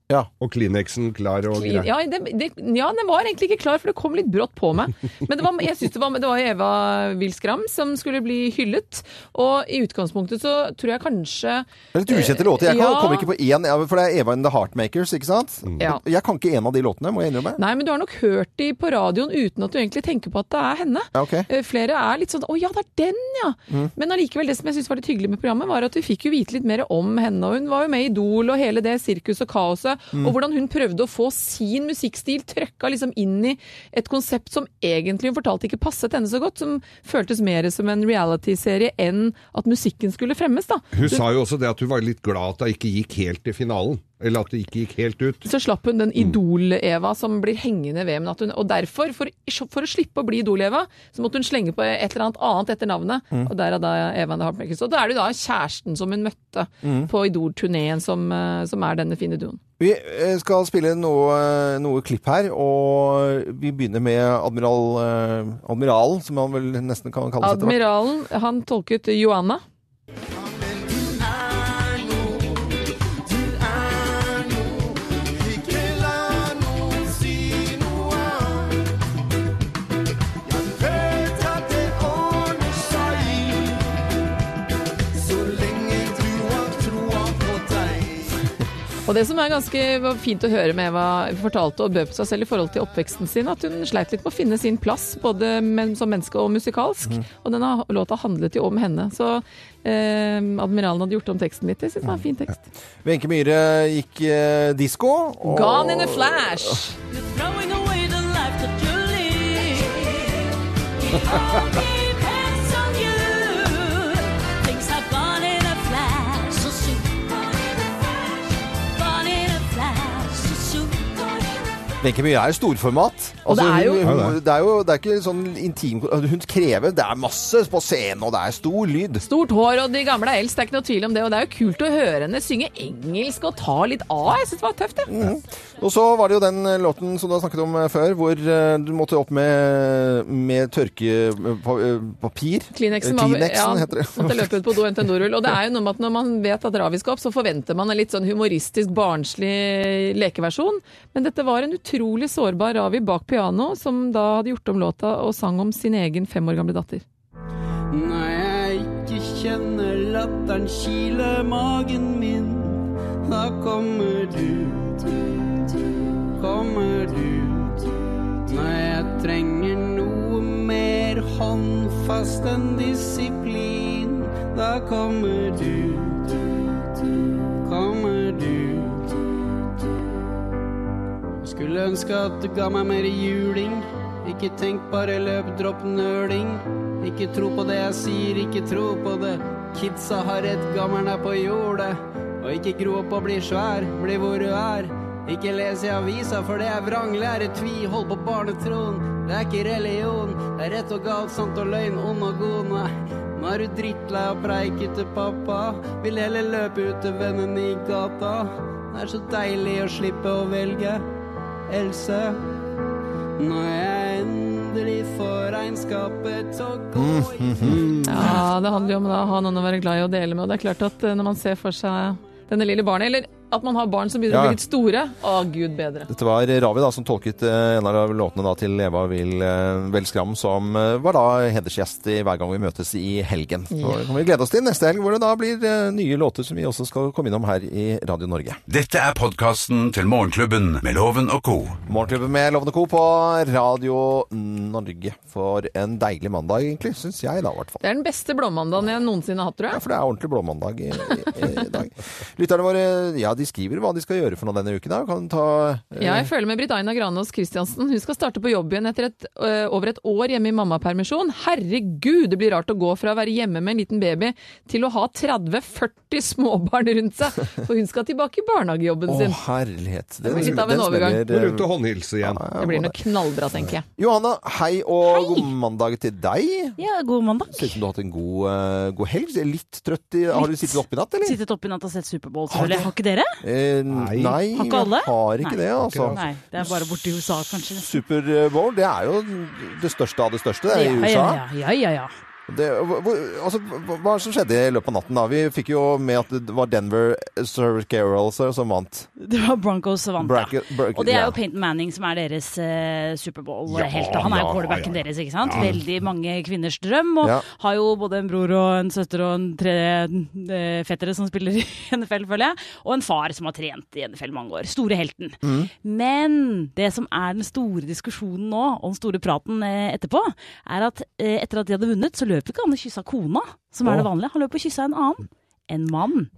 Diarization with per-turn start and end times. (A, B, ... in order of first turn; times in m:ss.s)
0:00.4-0:01.9 A
0:01.5-0:13.3 B
0:11.9-0:17.6 C
0:17.6-0:41.2 B
0:21.1-0:21.5 C
0:40.9-0:45.4 A
0:45.4-0:59.6 B
0:56.8-0:57.1 C
0:59.8-1:07.8 C
1:07.4-1:09.6 B
1:21.3-1:23.0 D
1:25.8-1:27.4 D
1:29.1-1:42.6 B
1:43.0-1:46.8 C
1:45.4-1:47.0 B
1:47.1-2:01.8 E
2:02.0-2:09.2 C
2:03.5-2:04.1 B
2:04.0-2:04.4 A
2:09.2-2:15.1 B
2:15.1-2:24.8 C
2:22.7-2:37.0 B
2:37.9-2:45.4 F
2:46.4-2:47.8 F
2:48.5-2:56.6 F
2:57.6-2:59.2 F
3:01.4-3:31.0 F
3:31.7-3:32.4 F
3:33.4-3:38.0 F
3:37.0-3:38.3 C
3:37.8-3:38.0 A
3:38.0-3:46.1 B
3:44.3-3:44.6 C
3:46.1-3:58.6 C
3:53.7-3:54.1 B
3:58.7-4:01.8 G
4:01.9-4:07.8 C
4:07.8-4:09.8 B
4:09.7-4:16.3 C
4:16.0-4:29.4 B
4:29.1-4:33.0 C
4:30.2-4:31.2 B
4:30.3-4:30.7 A
4:31.2-4:32.4 A
4:32.6-4:33.9 B
4:33.8-4:36.8 C
4:35.0-4:35.5 H
4:36.8-4:37.8 H
4:37.5-4:41.4 C
4:40.3-4:43.4 H
4:42.5-4:42.9 C
4:43.4-4:46.2 C
4:43.9-4:44.4 A
4:44.4-4:48.0 H
4:45.8-4:46.2 A
4:47.7-4:51.4 C
4:50.7-4:52.1 H
4:52.5-4:59.1 C
4:59.2-5:26.3 H
5:00.2-5:01.4 C
5:03.7-5:05.9 A
5:15.4-5:15.7 C